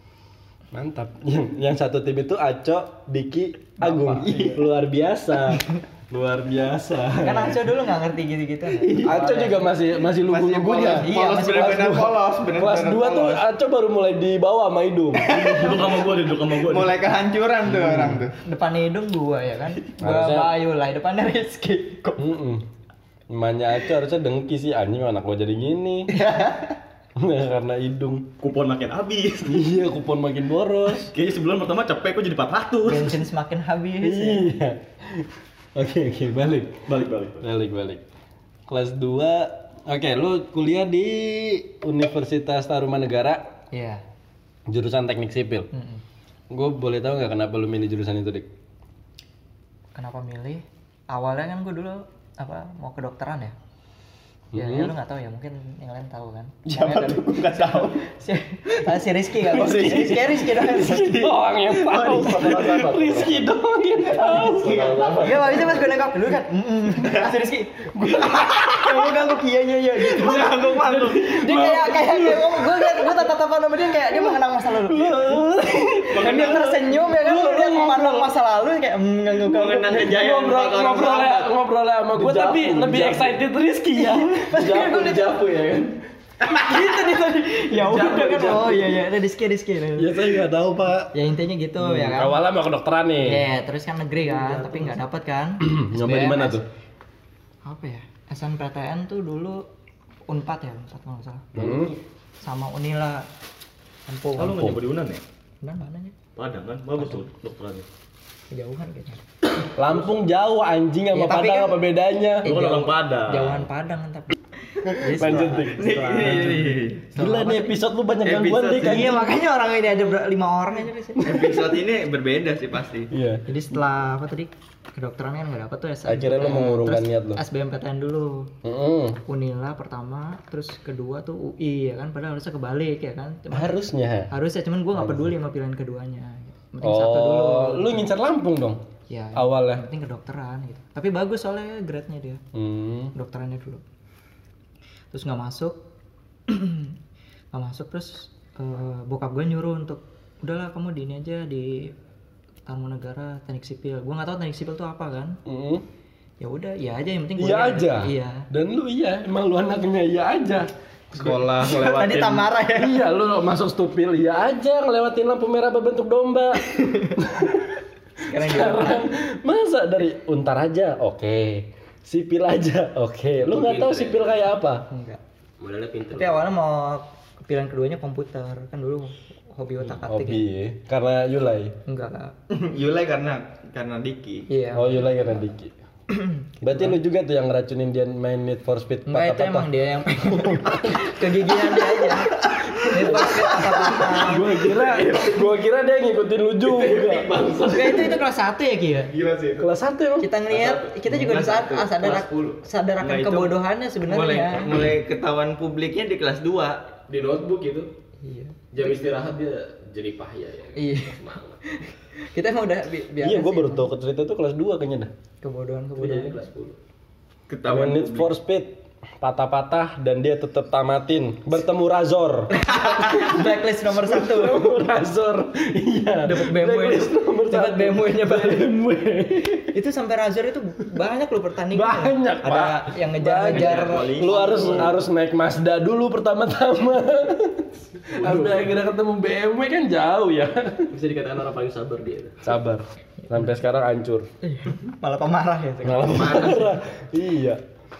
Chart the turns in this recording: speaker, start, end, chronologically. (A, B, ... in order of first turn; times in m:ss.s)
0:00.7-0:07.7 A
0:03.8-0:04.6 B
0:04.0-0:04.5 C
0:07.2-0:09.6 C
0:08.8-0:09.3 B
0:08.9-0:11.1 A
0:10.1-0:13.4 B
0:10.9-0:12.1 C
0:11.7-0:15.5 A
0:15.1-0:18.3 B
0:15.3-0:17.0 D
0:17.7-0:18.2 A
0:18.4-0:22.3 C
0:20.0-0:20.5 A
0:22.2-0:22.6 A
0:23.3-0:26.1 A
0:26.1-0:26.7 B
0:27.2-0:28.3 A
0:28.4-0:29.6 D
0:29.4-0:31.1 A
0:31.0-0:33.2 D
0:32.8-0:34.5 C
0:34.0-0:36.8 A
0:36.9-0:37.4 D
0:37.4-0:38.0 A
0:38.7-0:43.4 A
0:43.7-0:44.0 C
0:44.7-0:45.7 A
0:45.7-0:46.0 C
0:46.5-0:48.5 A
0:49.9-0:53.5 C
0:54.5-0:54.9 A
0:54.5-1:01.4 C
0:56.6-0:58.0 B
0:59.4-1:05.0 A
1:01.9-1:03.2 B
1:01.9-1:03.4 E
1:04.1-1:05.8 B
1:04.4-1:05.7 E
1:05.1-1:15.4 C
1:07.9-1:09.2 A
1:10.1-1:11.2 B
1:10.2-1:13.3 A
1:14.0-1:18.3 A
1:16.0-1:19.7 C
1:16.2-1:16.6 D
1:19.4-1:21.5 B
1:19.5-1:25.0 A
1:22.1-1:23.4 E
1:23.9-1:25.3 C
1:24.5-1:26.0 E
1:26.4-1:30.4 C
1:27.9-1:28.9 E
1:30.0-1:31.2 A
1:31.1-1:32.4 C
1:31.8-1:33.4 A
1:33.2-1:36.6 C
1:34.3-1:34.9 E
1:35.6-1:36.6 A
1:37.6-1:39.6 C
1:40.3-1:41.5 C
1:41.5-1:42.0 A
1:42.4-1:43.3 C
1:44.1-1:44.8 C
1:44.4-1:45.2 D
1:45.6-1:46.2 C
1:46.4-1:47.8 D
1:47.0-1:47.2 C
1:48.5-1:49.2 C
1:49.7-1:52.5 A
1:51.1-1:51.8 C
1:52.4-1:57.8 C
1:52.4-1:53.7 D
1:54.8-1:56.6 A
1:55.2-1:56.9 B
1:57.1-1:59.3 A
1:58.2-1:59.2 B
1:58.8-2:01.5 C
2:01.2-2:03.1 B
2:03.1-2:03.4 A
2:03.5-2:08.5 C
2:06.0-2:07.4 A
2:08.6-2:09.2 A
2:09.3-2:18.0 C
2:13.5-2:14.3 A
2:15.0-2:15.3 A
2:16.8-2:18.8 A
2:19.1-2:22.4 C
2:19.3-2:19.8 A
2:22.5-2:23.1 A
2:23.1-2:23.8 C
2:25.1-2:25.8 C
2:26.5-2:27.0 C
2:27.5-2:31.9 C
2:32.6-2:35.4 C
2:35.4-2:35.8 A
2:36.4-2:38.5 C
2:37.4-2:54.8 A
2:41.2-2:43.0 C
2:48.2-2:49.1 C
2:53.4-2:54.4 E
2:54.9-2:55.2 C
2:55.6-2:56.5 E
2:56.1-3:00.4 C
3:00.0-3:01.8 A
3:01.8-3:02.3 C
3:02.5-3:04.5 B
3:04.5-3:05.0 C
3:04.7-3:05.7 A
3:06.1-3:07.0 C
3:06.6-3:09.7 A
3:09.1-3:14.7 C
3:10.2-3:11.1 A
3:12.7-3:17.3 A
3:14.8-3:15.3 E
3:16.6-3:18.2 E
3:17.6-3:19.1 C
3:19.1-3:19.7 B
3:19.6-3:20.3 A
3:20.2-3:24.8 C
3:20.5-3:22.6 E
3:21.1-3:21.9 B
3:23.0-3:26.8 B
3:27.1-3:27.9 E
3:28.2-3:28.9 C
3:28.7-3:31.6 E
3:30.8-3:31.2 C
3:31.7-3:33.9 C
3:33.2-3:35.1 A
3:35.4-3:36.4 C
3:36.0-3:36.8 E
3:37.5-3:38.3 B
3:37.6-3:49.7 A
3:42.5-3:44.6 C
3:46.2-3:48.7 C
3:49.7-3:54.9 C
3:51.7-4:00.9 A
3:53.5-3:54.9 B
3:54.1-3:54.9 E
3:58.1-3:58.7 E
4:00.9-4:02.4 E
4:02.4-4:04.3 A
4:04.4-4:06.6 C
4:05.8-4:07.6 A